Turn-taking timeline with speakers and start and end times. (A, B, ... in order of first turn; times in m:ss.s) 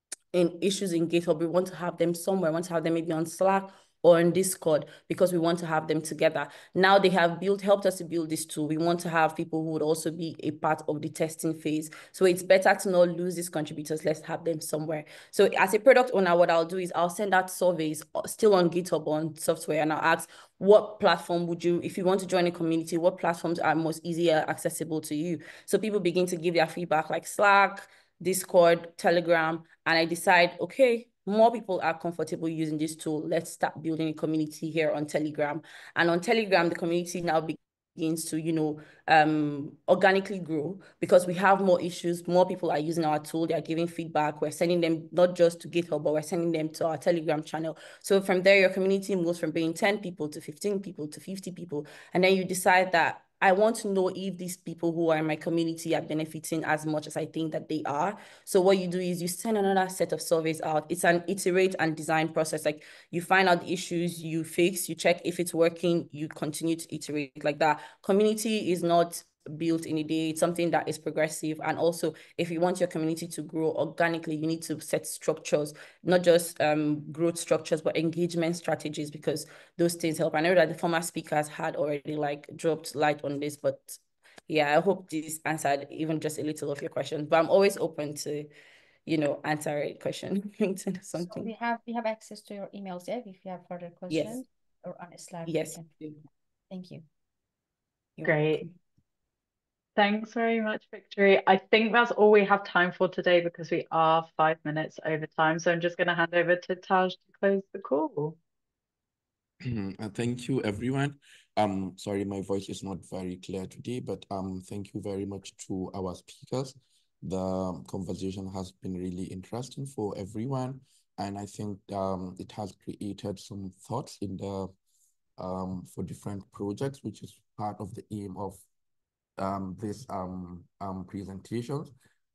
0:00.3-1:28.5 A
1:29.0-1:31.5 A
1:31.2-1:36.0 B
1:34.1-1:34.4 A
1:35.5-1:36.2 A
1:36.7-1:37.0 B
1:38.2-1:38.7 B
1:38.2-1:38.6 C
1:40.0-1:48.4 C
1:49.6-2:04.7 D
2:05.4-2:08.6 D
2:09.4-2:11.9 D